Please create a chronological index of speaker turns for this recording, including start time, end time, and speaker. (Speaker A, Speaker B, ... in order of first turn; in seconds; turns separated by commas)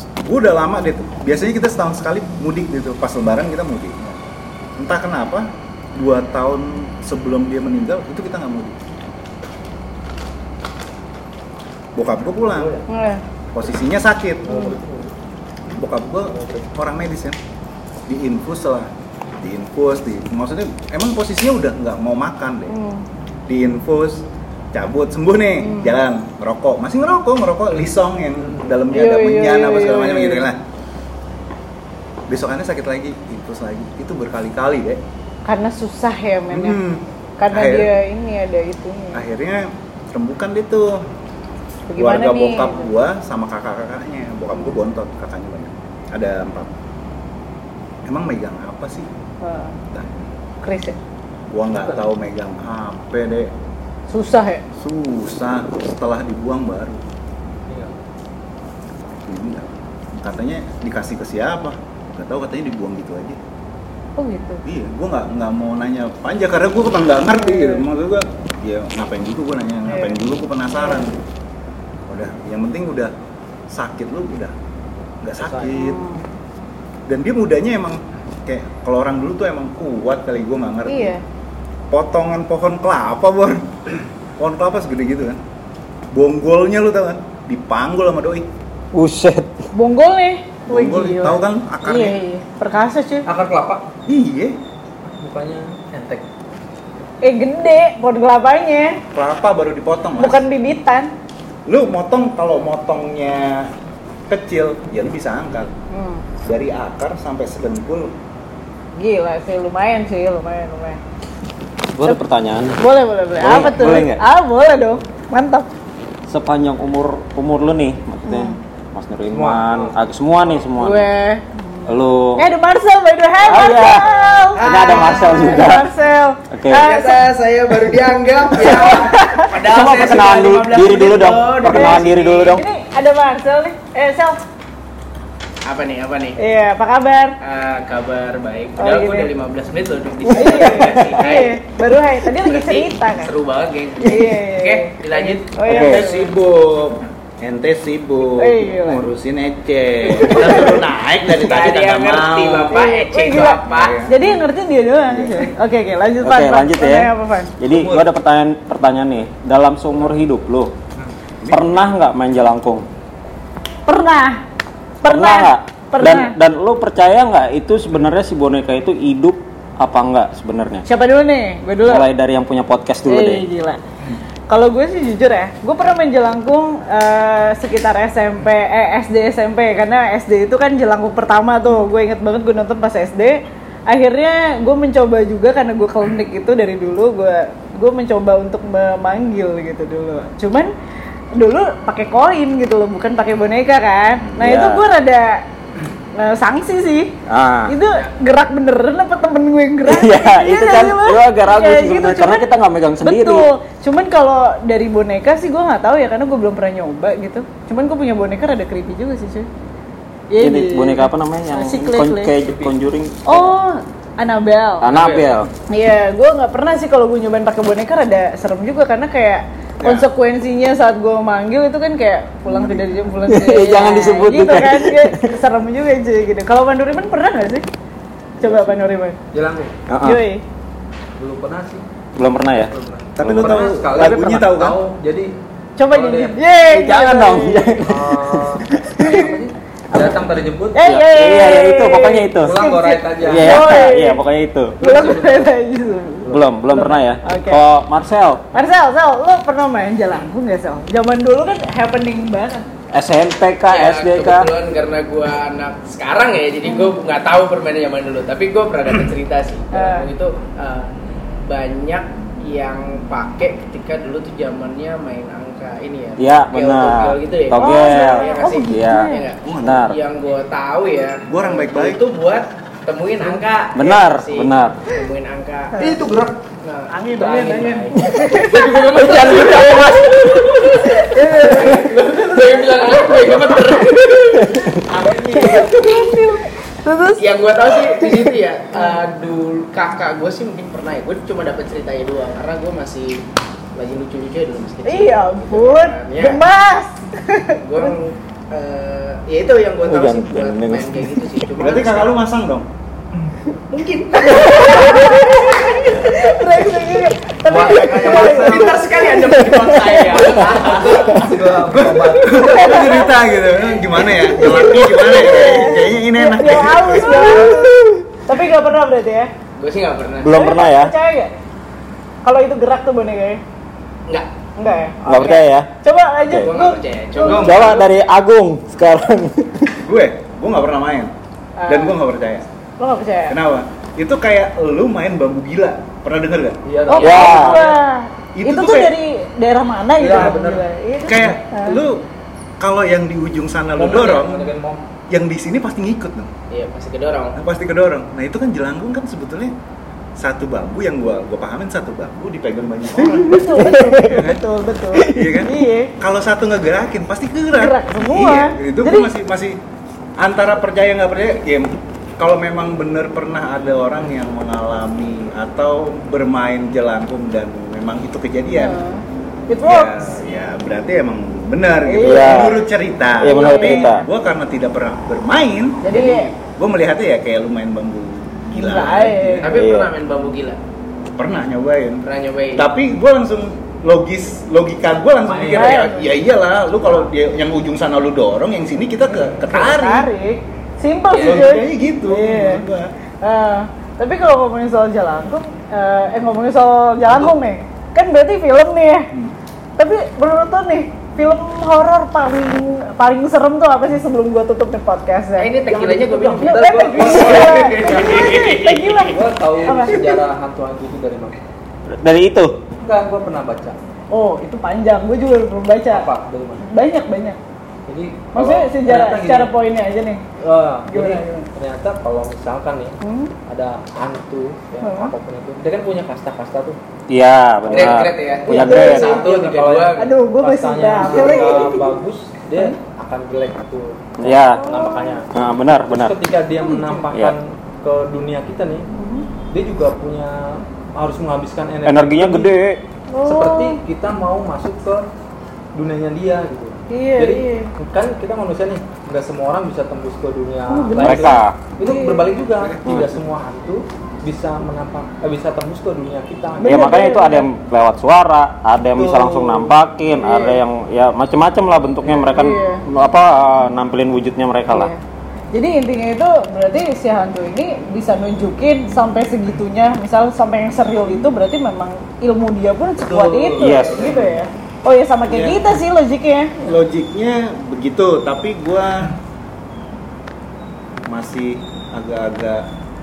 Speaker A: 0.1-4.2, Speaker A: 4.8-8.8, Speaker A: 11.9-12.8, Speaker B: 12.5-12.8, Speaker C: 12.9-13.2, Speaker A: 13.5-14.5, Speaker B: 14.4-15.1, Speaker C: 14.5-14.8, Speaker A: 15.7-17.4, Speaker B: 16.3-16.7, Speaker A: 18.1-22.7, Speaker C: 22.7-23.0, Speaker A: 23.5-30.6, Speaker C: 25.6-25.9, Speaker B: 28.4-28.7, Speaker C: 28.9-30.4, Speaker A: 32.3-35.0, Speaker C: 35.5-36.8, Speaker A: 36.5-37.9, Speaker C: 37.4-39.2, Speaker A: 39.1-41.0, Speaker C: 41.9-42.9, Speaker A: 42.0-46.8, Speaker A: 48.1-49.1, Speaker C: 49.4-49.8, Speaker A: 49.9-50.3, Speaker C: 50.6-51.0, Speaker A: 51.5-53.5, Speaker C: 54.1-54.6, Speaker A: 54.8-57.0, Speaker B: 57.7-57.9, Speaker A: 59.2-63.4, Speaker C: 64.2-64.6, Speaker A: 64.6-71.2, Speaker C: 67.4-67.8, Speaker C: 69.8-70.2, Speaker C: 70.8-71.0, Speaker A: 72.1-73.1, Speaker A: 73.7-74.5, Speaker A: 75.2-76.0, Speaker B: 75.4-75.7, Speaker C: 75.7-76.2, Speaker A: 77.1-81.1, Speaker C: 80.8-81.2, Speaker A: 81.9-85.4, Speaker A: 86.1-88.5, Speaker D: 88.9-89.5, Speaker C: 89.7-93.2, Speaker A: 90.7-92.2, Speaker B: 93.2-93.8, Speaker A: 94.0-94.5, Speaker B: 95.2-96.2, Speaker C: 97.2-99.0, Speaker A: 99.1-100.4, Speaker C: 100.2-101.1, Speaker A: 101.7-103.7, Speaker A: 104.3-105.7, Speaker C: 105.9-106.2, Speaker A: 106.4-108.1, Speaker C: 109.0-111.0, Speaker D: 111.9-112.8, Speaker C: 112.8-115.7, Speaker D: 113.4-114.2, Speaker D: 116.3-121.1, Speaker C: 118.2-118.5, Speaker B: 119.3-120.6, Speaker C: 120.8-127.2, Speaker D: 121.8-122.4, Speaker D: 123.4-125.9, Speaker E: 124.5-125.7, Speaker D: 126.5-126.8, Speaker E: 126.8-132.5, Speaker C: 128.6-129.5, Speaker D: 129.6-132.6, Speaker C: 131.7-134.4, Speaker E: 135.6-136.4, Speaker C: 136.4-137.3, Speaker E: 137.4-141.6, Speaker C: 138.8-139.3, Speaker C: 140.3-143.3, Speaker D: 140.4-141.2, Speaker E: 142.3-145.7, Speaker C: 144.0-146.3, Speaker D: 145.7-146.0, Speaker A: 145.7-152.7, Speaker C: 148.3-149.1, Speaker C: 150.2-150.8, Speaker E: 151.3-154.1, Speaker C: 152.7-157.5, Speaker A: 153.5-154.3, Speaker A: 155.1-155.5, Speaker D: 156.2-160.7, Speaker A: 157.7-158.1, Speaker A: 161.4-161.8, Speaker D: 161.5-162.8, Speaker C: 163.8-164.4, Speaker C: 165.0-166.3, Speaker D: 165.0-170.8, Speaker C: 170.8-172.1, Speaker D: 171.8-173.4, Speaker C: 173.1-173.8, Speaker C: 174.5-183.4, Speaker C: 183.9-190.7, Speaker C: 191.3-195.4, Speaker D: 194.3-194.8, Speaker C: 196.1-197.1, Speaker D: 197.3-197.7, Speaker C: 197.7-202.5, Speaker D: 199.8-203.5, Speaker C: 203.0-209.5, Speaker C: 210.3-212.3, Speaker D: 210.4-213.5, Speaker B: 212.4-212.7, Speaker C: 213.2-214.8, Speaker D: 214.8-215.5, Speaker B: 214.9-215.3, Speaker C: 215.7-227.7, Speaker A: 219.8-220.1, Speaker A: 222.4-223.1, Speaker D: 223.3-225.3, Speaker A: 228.4-228.8, Speaker C: 228.4-229.2, Speaker B: 229.3-229.8, Speaker D: 229.9-230.2, Speaker C: 230.0-230.4, Speaker B: 231.2-231.8, Speaker D: 232.2-234.3, Speaker B: 232.5-235.3, Speaker A: 233.2-234.8, Speaker C: 235.8-237.8, Speaker B: 235.9-236.4, Speaker D: 236.7-239.1, Speaker B: 237.8-241.1, Speaker C: 239.0-239.3, Speaker C: 240.7-244.2, Speaker D: 240.9-242.6, Speaker B: 242.4-243.9, Speaker D: 243.2-244.8, Speaker B: 244.8-245.5, Speaker C: 244.8-247.6, Speaker D: 246.3-248.4, Speaker C: 248.5-252.7, Speaker D: 252.9-254.5, Speaker E: 253.7-260.9, Speaker C: 256.7-256.9, Speaker C: 259.7-260.1, Speaker E: 261.4-276.0, Speaker D: 266.2-269.1, Speaker C: 267.5-269.2, Speaker A: 269.4-269.9, Speaker D: 269.6-269.9, Speaker A: 271.3-272.0, Speaker D: 273.7-274.8, Speaker B: 275.8-276.4, Speaker E: 276.6-286.1, Speaker C: 276.9-278.9, Speaker D: 278.1-280.6, Speaker C: 279.5-281.9, Speaker C: 285.1-288.0, Speaker E: 287.2-293.2, Speaker C: 288.7-289.0, Speaker E: 293.7-296.4, Speaker C: 294.8-297.9, Speaker E: 297.6-302.2, Speaker D: 299.8-301.2, Speaker A: 301.6-302.7, Speaker E: 303.7-306.1, Speaker C: 304.1-308.8, Speaker B: 307.5-308.8, Speaker E: 307.6-311.3, Speaker D: 309.3-310.0, Speaker B: 310.3-312.9, Speaker A: 311.6-317.6, Speaker C: 312.1-313.1, Speaker C: 313.9-319.3, Speaker E: 319.6-320.4, Speaker D: 320.2-320.9, Speaker C: 320.3-321.3, Speaker C: 322.2-323.4, Speaker C: 324.6-327.8, Speaker D: 325.1-325.7, Speaker E: 326.4-327.9, Speaker D: 327.3-329.8, Speaker A: 329.8-331.1, Speaker C: 331.6-331.9, Speaker A: 331.7-332.4, Speaker C: 332.8-333.4, Speaker A: 333.3-336.6, Speaker B: 336.6-337.8, Speaker C: 336.9-341.8, Speaker D: 337.0-337.6, Speaker A: 338.4-338.9, Speaker B: 340.0-340.6, Speaker A: 341.0-342.0, Speaker A: 342.6-344.5, Speaker B: 343.7-344.8, Speaker A: 345.1-346.3, Speaker E: 346.5-347.4, Speaker A: 347.4-349.5, Speaker A: 350.2-354.4, Speaker C: 353.0-355.9, Speaker D: 353.5-354.2, Speaker A: 354.9-359.6, Speaker C: 357.5-359.1, Speaker A: 360.2-368.8, Speaker C: 368.5-370.0, Speaker A: 369.6-379.6, Speaker C: 371.8-372.5, Speaker D: 372.0-372.6, Speaker D: 373.2-374.0, Speaker C: 373.3-374.0, Speaker C: 375.8-376.3, Speaker E: 375.9-376.2, Speaker C: 378.5-379.4, Speaker E: 379.4-380.6, Speaker D: 379.4-379.9, Speaker A: 381.2-382.0, Speaker E: 382.0-382.6, Speaker A: 382.5-390.1, Speaker B: 385.2-385.9, Speaker C: 385.5-386.0, Speaker C: 389.4-392.6, Speaker E: 391.1-391.4, Speaker A: 391.2-392.9, Speaker C: 393.2-399.1, Speaker C: 399.8-405.6, Speaker E: 405.4-409.1, Speaker B: 405.7-408.4, Speaker C: 406.4-410.2, Speaker B: 408.9-411.4, Speaker D: 412.0-412.5, Speaker B: 412.8-413.8, Speaker C: 414.1-416.1, Speaker B: 415.9-416.6, Speaker C: 416.6-417.4, Speaker B: 417.9-419.5, Speaker C: 418.3-420.2, Speaker B: 420.4-426.8, Speaker C: 420.9-421.4, Speaker C: 423.0-423.3, Speaker C: 424.8-425.1, Speaker D: 427.1-429.2, Speaker E: 427.7-430.1, Speaker C: 428.4-429.2, Speaker B: 428.5-435.3, Speaker C: 429.9-431.9, Speaker D: 434.2-434.7, Speaker C: 434.6-435.2, Speaker D: 435.3-436.1, Speaker B: 435.8-438.9, Speaker C: 436.6-437.0, Speaker C: 438.9-439.3, Speaker B: 439.5-442.5, Speaker D: 441.9-442.8, Speaker C: 443.1-443.8, Speaker B: 443.2-445.0, Speaker B: 445.7-456.9, Speaker C: 446.9-447.7, Speaker C: 450.7-452.3, Speaker D: 451.0-451.6, Speaker A: 452.6-453.1, Speaker C: 456.6-457.5, Speaker D: 456.6-464.9, Speaker B: 458.9-459.8, Speaker C: 460.2-460.6, Speaker C: 462.3-462.8, Speaker C: 464.7-465.0, Speaker C: 465.5-476.7, Speaker B: 473.0-474.4, Speaker D: 473.6-474.1, Speaker A: 475.3-475.8, Speaker A: 476.6-479.1, Speaker A: 481.1-482.6